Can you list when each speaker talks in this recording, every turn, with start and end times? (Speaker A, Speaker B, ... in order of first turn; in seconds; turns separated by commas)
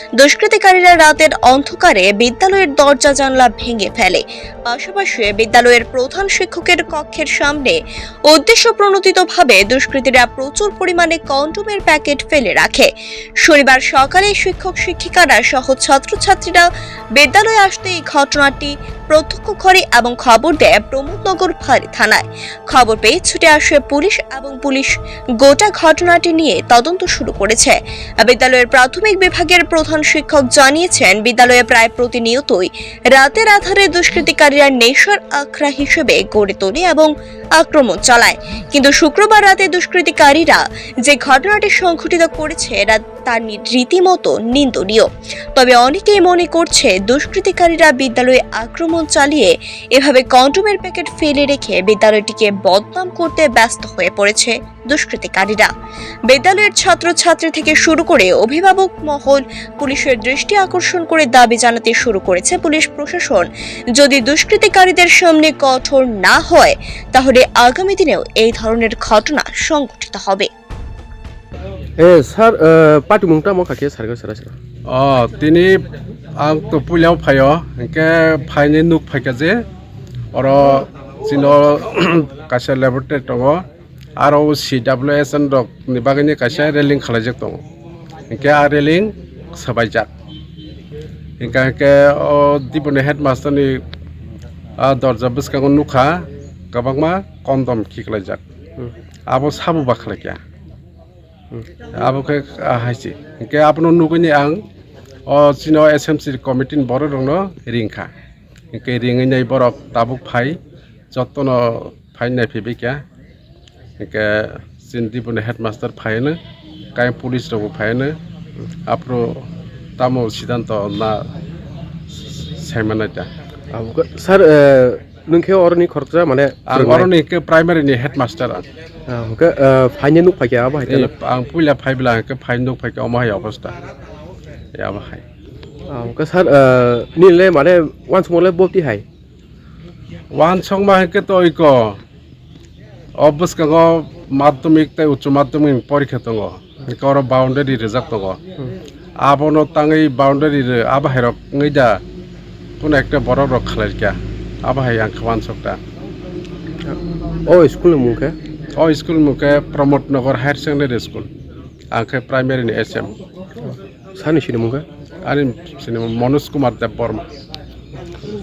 Speaker A: 0.2-12.9, Speaker A: 13.4-55.7, Speaker A: 56.3-70.5, Speaker B: 72.0-74.5, Speaker C: 74.9-75.8, Speaker C: 76.4-79.6, Speaker C: 80.3-83.6, Speaker C: 84.2-87.6, Speaker C: 88.3-90.1, Speaker C: 91.4-93.8, Speaker C: 94.8-98.4, Speaker C: 99.3-100.4, Speaker C: 102.0-104.6, Speaker C: 105.3-108.1, Speaker C: 108.7-110.6, Speaker C: 111.1-113.0, Speaker C: 114.0-116.4, Speaker C: 117.0-118.1, Speaker C: 118.9-119.4, Speaker C: 120.0-121.2, Speaker C: 122.5-123.3, Speaker B: 123.7-127.1, Speaker C: 126.7-128.6, Speaker B: 129.1-131.1, Speaker C: 130.9-133.7, Speaker C: 134.8-135.2, Speaker B: 135.9-139.0, Speaker C: 140.3-142.0, Speaker C: 143.2-148.4, Speaker C: 149.2-152.0, Speaker C: 152.8-155.8, Speaker B: 156.8-158.3, Speaker C: 158.8-161.3, Speaker C: 161.9-163.1, Speaker B: 163.6-164.8, Speaker C: 165.3-167.3